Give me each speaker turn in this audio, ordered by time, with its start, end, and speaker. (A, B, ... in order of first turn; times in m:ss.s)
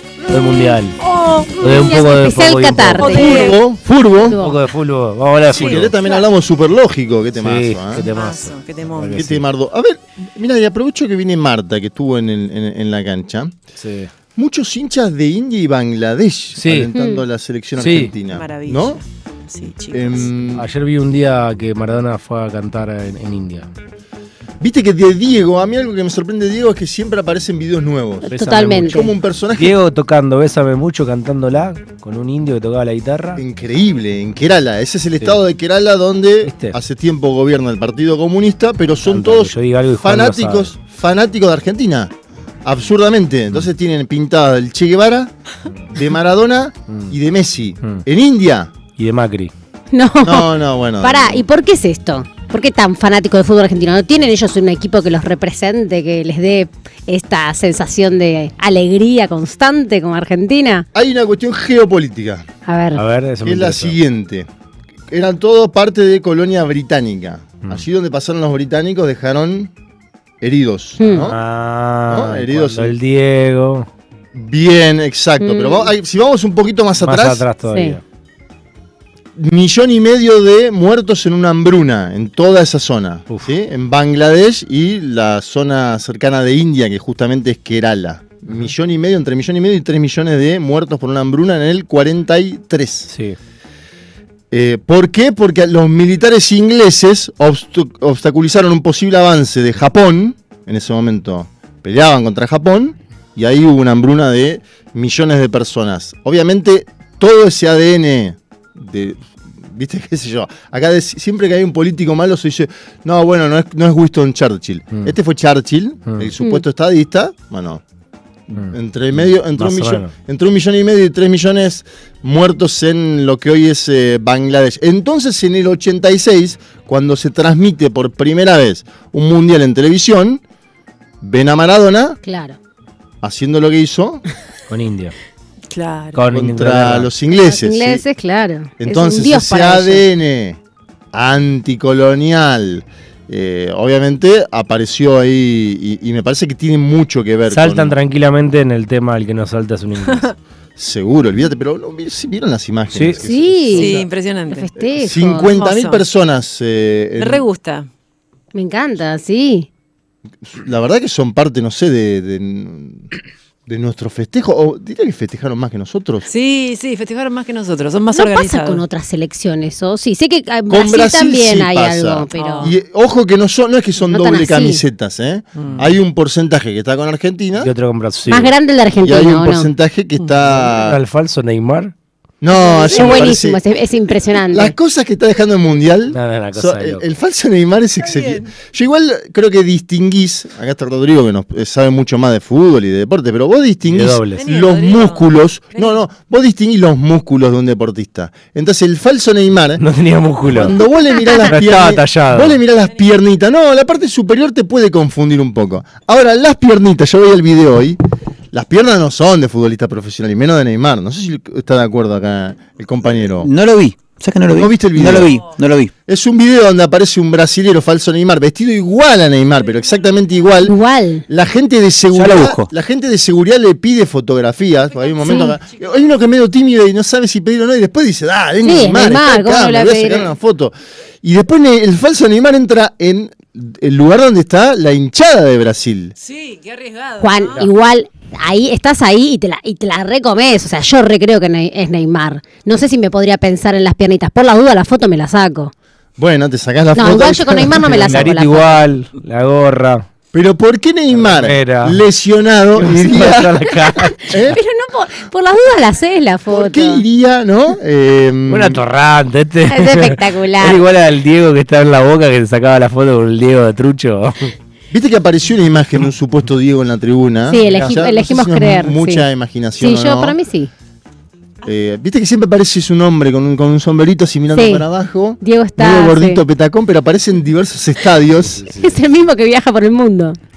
0:00.3-0:01.0 A
0:01.0-0:01.7 B
0:01.6-0:03.2 A
0:01.6-0:03.6 C
0:03.0-0:03.6 B
0:03.0-0:04.4 D
0:04.2-0:04.6 C
0:04.3-0:06.0 A
0:05.5-0:08.1 D
0:05.6-0:06.2 B
0:07.4-0:09.4 A
0:08.1-0:09.2 B
0:09.2-0:13.6 D
0:13.8-0:14.1 A
0:14.4-0:19.0 D
0:16.5-0:16.9 A
0:17.0-0:17.2 C
0:17.8-0:18.2 A
0:18.2-0:20.3 B
0:19.9-0:20.7 D
0:20.5-0:23.7 A
0:24.6-0:29.8 D
0:28.3-0:29.0 C
0:28.3-0:33.4 A
0:33.4-0:42.1 D
0:36.4-0:36.8 A
0:39.0-0:40.8 A
0:42.6-0:45.3 D
0:45.9-0:48.7 D
0:49.0-0:49.5 A
0:49.9-0:50.5 C
0:50.2-0:51.4 D
0:51.0-1:00.9 C
1:01.0-1:02.4 D
1:02.7-1:03.0 C
1:02.9-1:04.0 A
1:03.4-1:04.5 D
1:05.1-1:09.7 D
1:10.4-1:11.4 D
1:11.0-1:11.3 C
1:11.3-1:13.9 A
1:12.1-1:13.0 D
1:14.3-1:17.4 D
1:15.4-1:15.9 C
1:17.0-1:18.0 A
1:17.6-1:18.0 C
1:19.4-1:33.1 D
1:33.1-1:33.4 A
1:34.5-1:57.8 D
1:56.1-1:56.3 A
1:58.5-2:10.4 D
1:58.6-2:00.1 A
2:11.2-2:12.2 D
2:12.2-2:12.6 C
2:13.2-2:14.2 D
2:14.7-2:15.2 A
2:15.7-2:16.2 B
2:16.1-2:17.1 A
2:16.3-2:18.0 D
2:17.4-2:20.0 C
2:18.8-2:20.6 D
2:21.1-2:28.0 D
2:27.5-2:30.3 A
2:30.0-2:30.3 B
2:30.8-2:34.1 D
2:32.9-2:33.3 A
2:33.2-2:34.0 C
2:33.7-2:34.7 B
2:34.5-2:35.6 C
2:34.8-2:37.4 D
2:35.5-2:36.1 B
2:37.2-2:37.9 B
2:38.5-2:39.7 C
2:40.4-2:43.1 D
2:43.7-2:46.3 D
2:46.3-2:48.8 B
2:48.1-2:52.8 C
2:50.7-2:57.7 D
2:52.4-2:52.8 B
2:54.0-2:54.8 C
2:55.6-2:55.9 B
2:57.6-2:58.6 A
2:58.3-2:59.7 C
2:59.0-3:01.0 D
3:00.4-3:01.9 A
3:02.4-3:03.6 D
3:02.5-3:04.7 C
3:04.5-3:19.8 D
3:06.1-3:07.0 A
3:08.0-3:08.5 B
3:13.9-3:14.5 A
3:14.4-3:16.0 B
3:19.8-3:20.8 A
3:20.5-3:28.0 D
3:21.5-3:22.6 A
3:28.5-3:33.5 D
3:33.4-3:35.9 E
3:34.5-3:35.4 D
3:36.1-3:40.8 D
3:40.6-3:41.3 C
3:41.3-3:56.1 D
3:42.1-3:42.7 E
3:44.9-3:46.2 B
3:45.2-3:45.6 C
3:48.6-3:50.3 C
3:56.2-3:57.7 B
3:57.2-4:05.7 C
4:06.2-4:08.3 D
4:07.0-4:08.9 C
4:07.9-4:10.1 A
4:10.3-4:13.7 D
4:11.1-4:12.0 A
4:12.8-4:14.6 A
4:13.2-4:17.0 C
4:14.2-4:14.6 D
4:16.5-4:18.8 D
4:18.5-4:24.5 A
4:19.7-4:20.8 C
4:24.9-4:30.4 D
4:27.5-4:30.7 C
4:27.7-4:28.0 A
4:31.6-4:38.6 D
4:34.6-4:34.8 C
4:35.4-4:36.4 C
4:38.4-4:39.1 A
4:38.6-4:40.4 C